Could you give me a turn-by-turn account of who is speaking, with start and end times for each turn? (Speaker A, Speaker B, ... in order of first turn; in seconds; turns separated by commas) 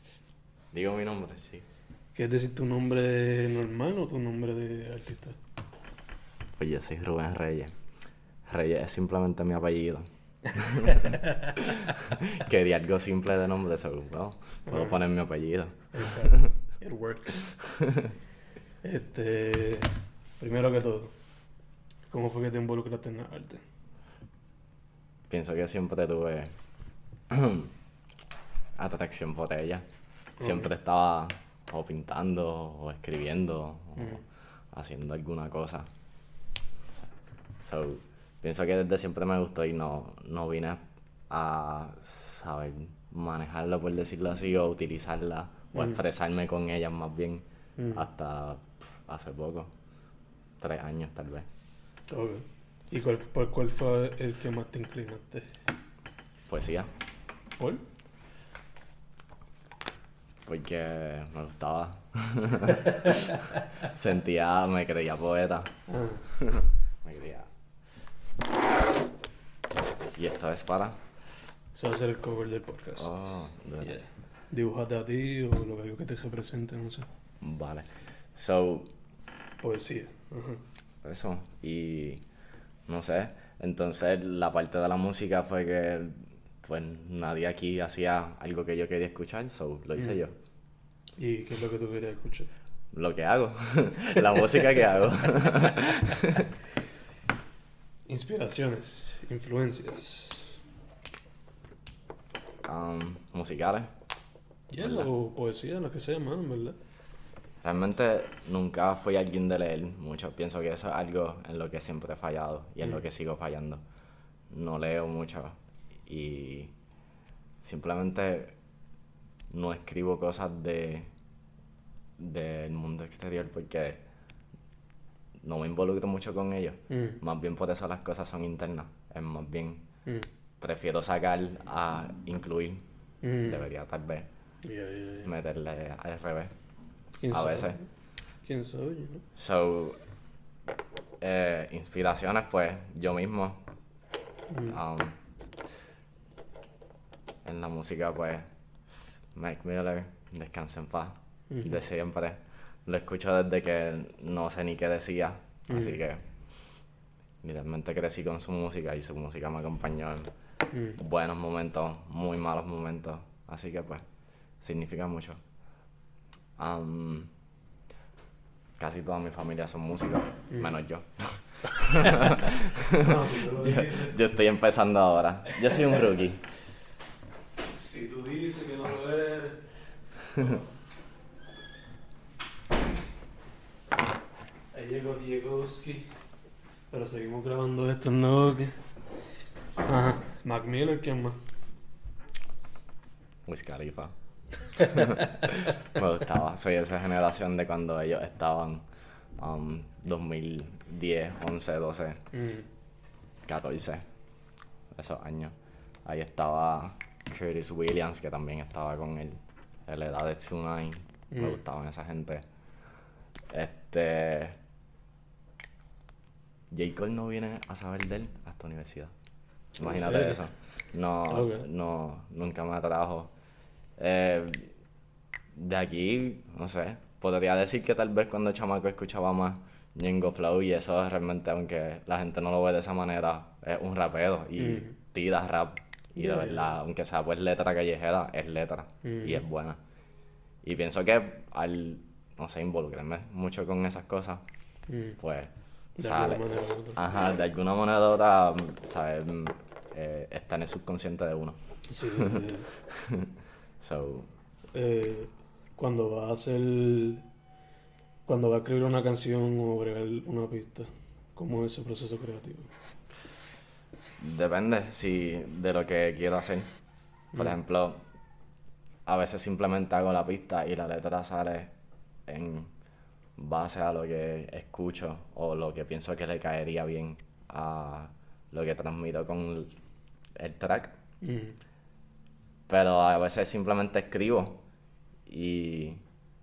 Speaker A: 0.7-1.6, Speaker B: 2.1-5.4, Speaker A: 6.6-7.7, Speaker A: 8.5-16.4, Speaker B: 11.0-11.4, Speaker B: 14.7-15.0, Speaker B: 15.9-17.6, Speaker A: 17.8-18.1, Speaker B: 18.8-21.1, Speaker B: 22.1-23.6, Speaker A: 25.3-26.5, Speaker A: 27.3-27.7, Speaker A: 28.8-29.8, Speaker B: 30.4-30.7, Speaker A: 30.4-35.9, Speaker B: 34.0-34.2, Speaker A: 37.6-49.7, Speaker B: 45.7-46.0, Speaker B: 47.8-48.0, Speaker A: 50.6-51.5, Speaker B: 52.1-55.6, Speaker A: 56.5-56.9, Speaker B: 57.6-57.8, Speaker A: 60.5-65.7, Speaker B: 65.9-66.3, Speaker A: 66.3-67.5, Speaker A: 70.1-71.0, Speaker B: 71.7-77.1, Speaker A: 73.0-74.0, Speaker A: 77.4-78.9, Speaker B: 79.6-80.6, Speaker A: 81.0-82.2, Speaker A: 82.9-90.3, Speaker B: 91.2-92.5, Speaker A: 92.9-96.5, Speaker B: 98.1-100.6, Speaker A: 102.6-103.9, Speaker B: 104.7-106.8, Speaker A: 104.8-105.1, Speaker A: 107.6-113.8, Speaker A: 114.5-116.7, Speaker A: 117.6-118.5, Speaker A: 119.5-121.1, Speaker A: 122.2-124.0, Speaker A: 125.4-129.8, Speaker B: 126.9-127.2, Speaker A: 130.6-132.8, Speaker B: 133.2-133.7, Speaker A: 133.4-134.3, Speaker B: 134.6-135.3, Speaker A: 135.2-136.5, Speaker B: 137.2-137.8, Speaker A: 137.3-137.8, Speaker B: 138.4-139.2, Speaker A: 139.3-140.0, Speaker A: 141.2-143.6, Speaker B: 144.5-144.8, Speaker A: 144.7-145.2, Speaker A: 147.4-148.5, Speaker A: 149.3-156.2, Speaker B: 151.5-151.8, Speaker B: 155.7-156.0, Speaker A: 157.4-160.3, Speaker B: 160.7-161.0, Speaker A: 161.0-164.0, Speaker A: 164.6-165.4, Speaker A: 166.6-167.3, Speaker A: 168.8-176.5, Speaker B: 172.9-174.2, Speaker B: 177.6-179.7, Speaker B: 184.7-186.1, Speaker B: 186.9-188.8, Speaker B: 189.8-191.4, Speaker A: 193.5-194.1, Speaker B: 194.8-195.1, Speaker A: 194.8-198.8, Speaker A: 199.4-202.2, Speaker B: 202.3-202.7, Speaker A: 203.4-204.0, Speaker A: 204.9-205.5, Speaker A: 206.0-212.4, Speaker B: 211.3-211.6, Speaker A: 213.5-214.6, Speaker A: 216.7-219.1, Speaker B: 219.8-220.4, Speaker A: 219.8-223.3, Speaker B: 221.3-221.7, Speaker A: 224.0-224.7, Speaker A: 225.5-239.8, Speaker B: 234.6-234.9, Speaker B: 236.2-236.8, Speaker B: 239.0-239.4, Speaker A: 240.6-244.4, Speaker B: 244.9-245.2, Speaker A: 245.2-251.6, Speaker B: 246.0-247.0, Speaker B: 251.9-252.7, Speaker A: 252.2-254.3, Speaker B: 254.7-257.2, Speaker B: 258.3-262.7, Speaker A: 264.2-266.7, Speaker A: 267.3-268.0, Speaker A: 269.1-271.7, Speaker A: 272.3-272.7, Speaker A: 273.4-279.7, Speaker A: 280.4-281.0, Speaker B: 281.2-281.6, Speaker A: 282.7-284.6, Speaker A: 285.3-286.0